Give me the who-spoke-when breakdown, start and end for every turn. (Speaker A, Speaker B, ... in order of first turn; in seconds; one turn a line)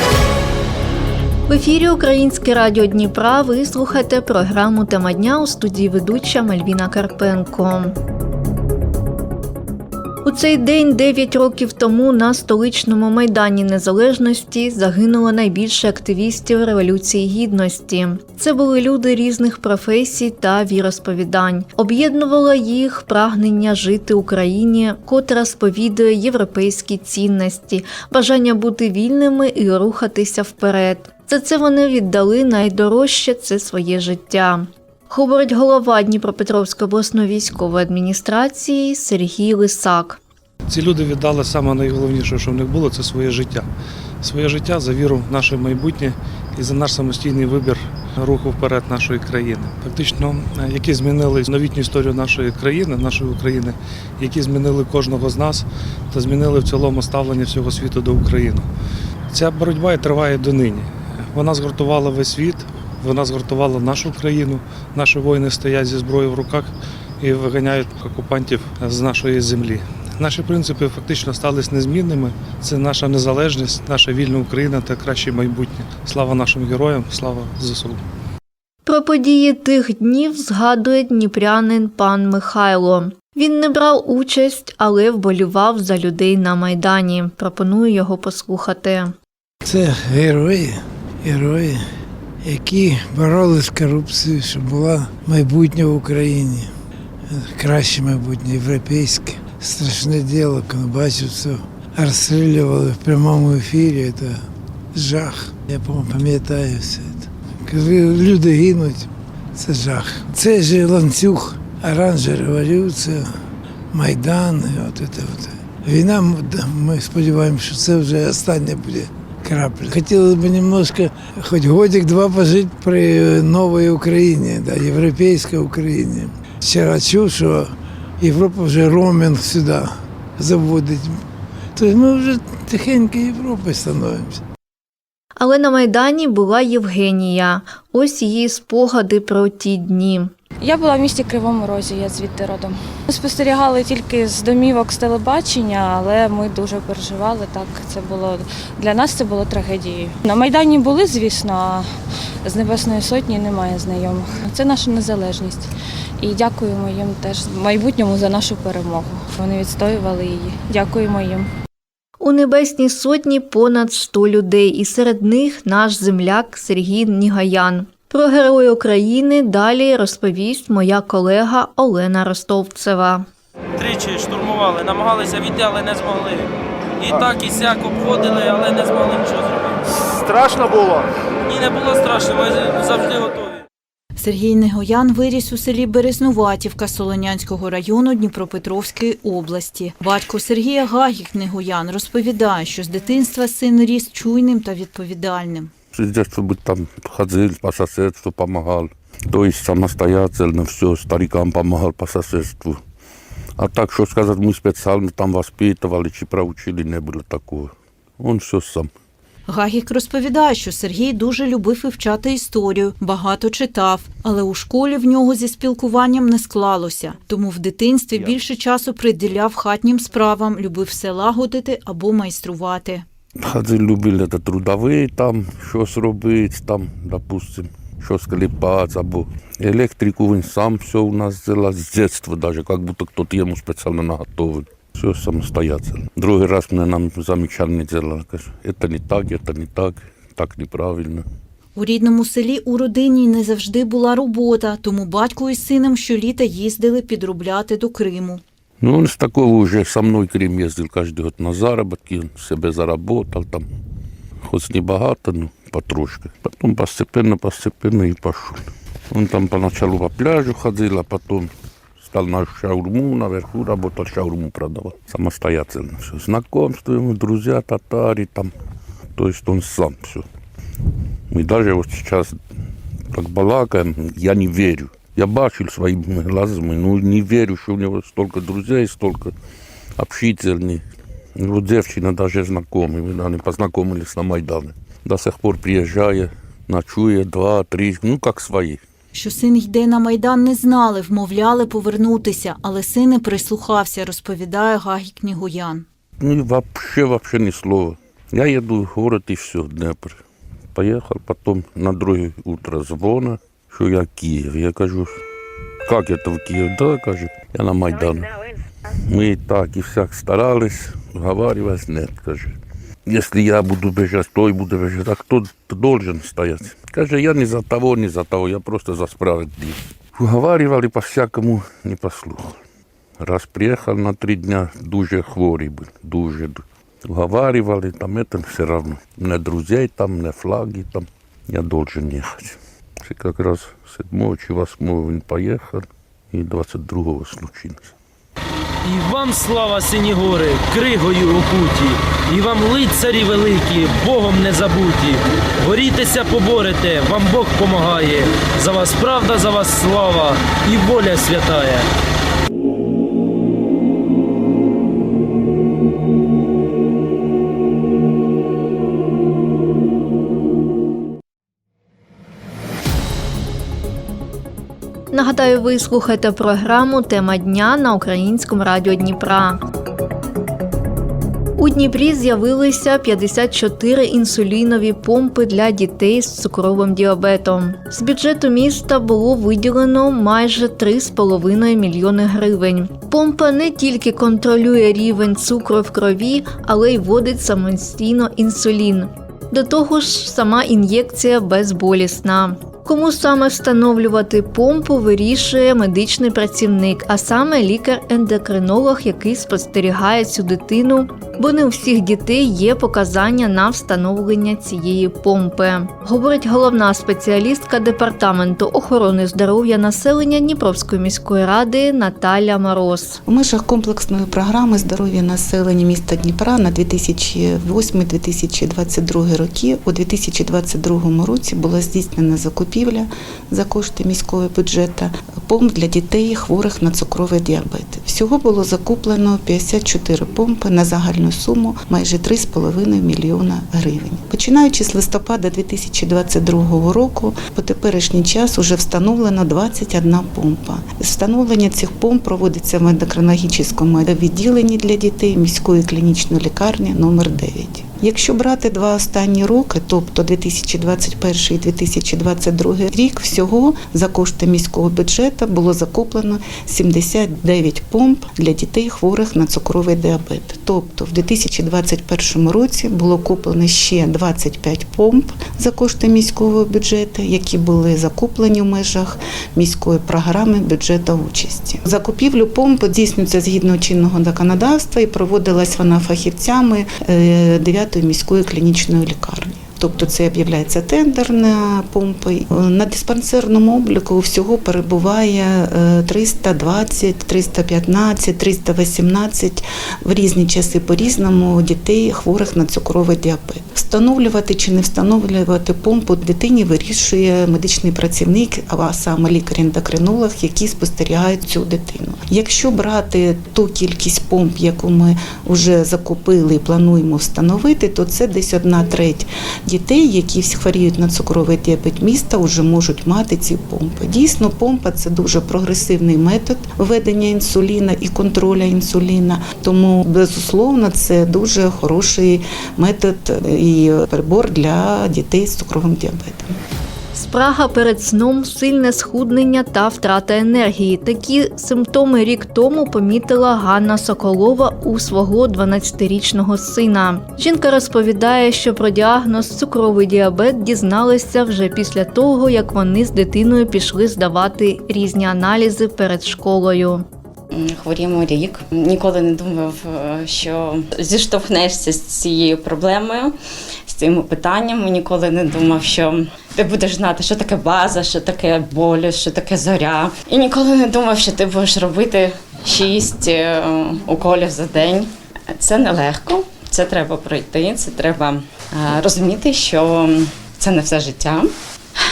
Speaker A: 1.5-8.0
Speaker A: 10.2-40.2
Speaker B: 40.7-43.7
Speaker B: 44.2-58.7
Speaker B: 59.3-66.7
Speaker B: 67.2-78.0
Speaker A: 78.9-89.1
Speaker C: 89.6-91.9
Speaker C: 92.4-96.7
Speaker C: 97.3-113.3
Speaker C: 113.9-131.2
Speaker C: 131.8-134.4
Speaker A: 135.4-140.3
Speaker D: 140.6-151.9
Speaker D: 152.4-155.7
Speaker D: 156.2-161.5
Speaker A: 162.2-173.3
Speaker E: 173.8-176.5
Speaker E: 177.1-183.6
Speaker F: 184.2-195.7
Speaker G: 195.9-202.8
Speaker G: 203.6-208.9
Speaker F: 209.5-223.0
Speaker G: 223.4-241.2
Speaker F: 241.8-248.4
Speaker G: 248.8-253.7
Speaker G: 254.5-261.5
Speaker G: 262.0-268.5
Speaker G: 269.2-270.2
Speaker G: 271.3-272.4
Speaker G: 273.1-279.3
Speaker G: 280.0-280.8
Speaker G: 281.4-288.8
Speaker F: 289.1-295.9
Speaker G: 296.2-300.2
Speaker G: 300.8-305.2
Speaker G: 305.9-308.4
Speaker G: 308.9-322.6
Speaker G: 323.2-337.9
Speaker E: 338.9-351.9
Speaker A: 365.1-369.6
Speaker A: 371.6-413.2
Speaker H: 413.3-526.5
Speaker A: 527.1-547.0
Speaker I: 547.5-553.4
Speaker I: 553.9-571.5